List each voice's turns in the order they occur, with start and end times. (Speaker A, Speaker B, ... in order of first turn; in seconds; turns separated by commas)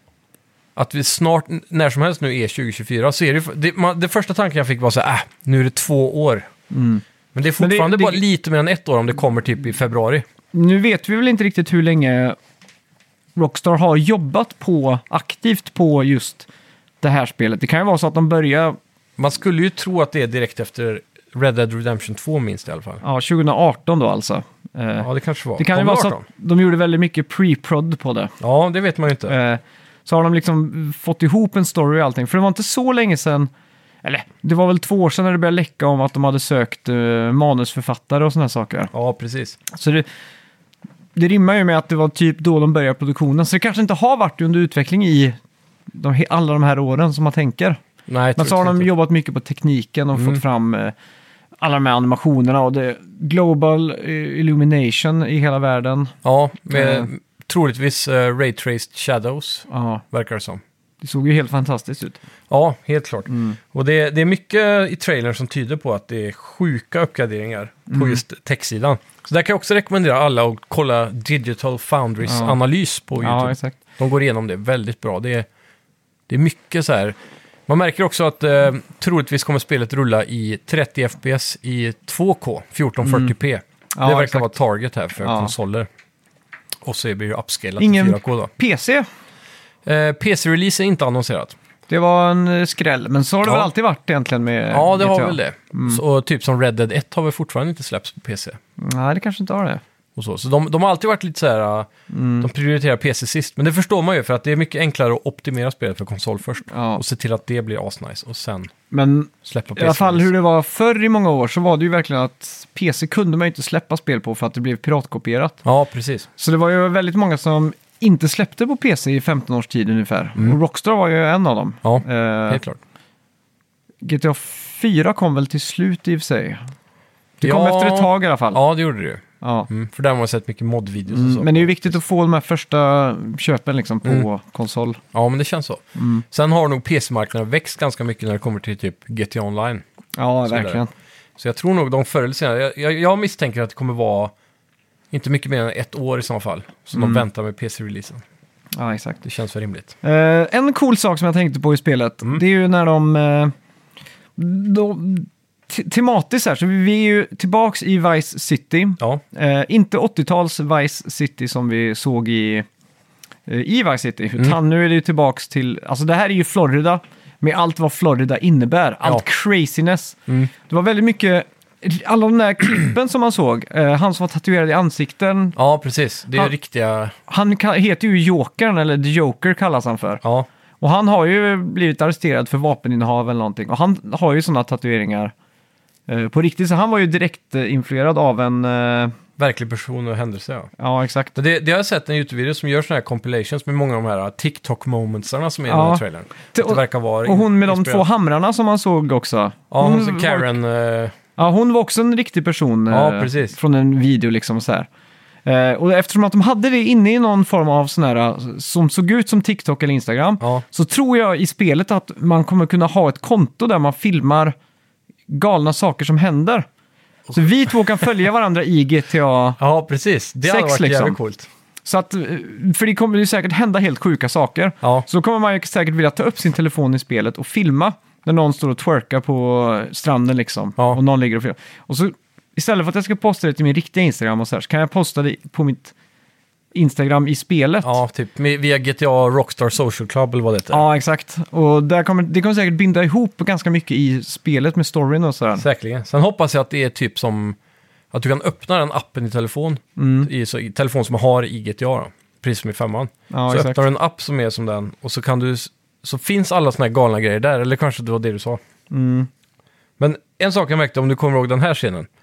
Speaker A: 0.8-6.5, Speaker B: 6.7-7.0, Speaker A: 7.3-10.2, Speaker B: 7.6-8.2, Speaker B: 10.5-12.4, Speaker B: 13.4-16.5, Speaker B: 17.0-18.8, Speaker A: 19.2-23.0, Speaker B: 23.0-28.4, Speaker A: 25.0-26.2, Speaker A: 28.4-29.3, Speaker B: 29.3-33.5, Speaker B: 34.0-38.9, Speaker A: 38.9-39.6, Speaker B: 39.7-40.0, Speaker B: 41.2-45.4, Speaker B: 45.9-47.8, Speaker A: 48.1-48.9, Speaker B: 48.4-50.9, Speaker A: 50.2-50.4, Speaker B: 51.6-56.1, Speaker A: 56.2-60.6, Speaker B: 56.7-57.1, Speaker B: 59.7-60.0, Speaker B: 61.0-62.2, Speaker A: 62.5-75.5, Speaker B: 63.3-63.6, Speaker B: 67.9-68.2, Speaker B: 72.2-72.6, Speaker B: 73.2-73.8, Speaker A: 76.3-77.2, Speaker A: 77.7-85.9, Speaker B: 83.0-83.3, Speaker B: 83.9-84.5, Speaker B: 85.2-85.5, Speaker A: 86.8-88.5, Speaker B: 87.8-89.1, Speaker A: 89.8-91.5, Speaker B: 91.9-96.0, Speaker A: 93.4-93.7, Speaker A: 94.7-98.6, Speaker B: 98.8-99.8, Speaker A: 100.2-101.9, Speaker B: 102.1-102.5, Speaker A: 102.4-108.7, Speaker B: 106.7-107.0, Speaker B: 108.9-115.6, Speaker A: 109.5-110.3, Speaker A: 115.7-116.3, Speaker B: 116.4-122.6, Speaker A: 121.8-122.8, Speaker B: 124.0-126.7, Speaker B: 127.4-128.6, Speaker A: 127.4-131.9, Speaker B: 129.4-129.7, Speaker B: 131.1-135.0, Speaker A: 135.1-139.8, Speaker B: 136.0-136.2, Speaker B: 140.2-140.9, Speaker A: 140.5-140.8, Speaker A: 141.4-144.3, Speaker A: 145.1-148.2, Speaker B: 146.9-147.2, Speaker B: 148.8-149.2, Speaker A: 149.2-149.9, Speaker B: 150.0-153.5, Speaker B: 154.4-162.7, Speaker B: 163.5-175.6, Speaker A: 175.6-177.2, Speaker B: 177.3-180.2, Speaker A: 180.2-180.5, Speaker B: 180.8-185.3, Speaker B: 186.1-189.1, Speaker A: 189.4-190.7, Speaker B: 190.8-191.3, Speaker A: 191.3-198.0, Speaker B: 195.7-196.0, Speaker B: 196.5-200.5, Speaker A: 199.7-201.2, Speaker B: 201.4-204.9, Speaker A: 202.9-203.6, Speaker B: 205.4-214.6, Speaker B: 215.3-216.7, Speaker B: 217.3-219.6, Speaker A: 219.6-221.5, Speaker B: 220.4-221.2, Speaker B: 221.8-235.9, Speaker B: 236.7-238.0, Speaker A: 237.8-240.8, Speaker B: 240.7-245.7, Speaker A: 245.6-247.6, Speaker A: 248.1-258.6, Speaker B: 250.0-250.3, Speaker B: 253.3-253.8, Speaker B: 258.9-259.3, Speaker A: 260.0-262.1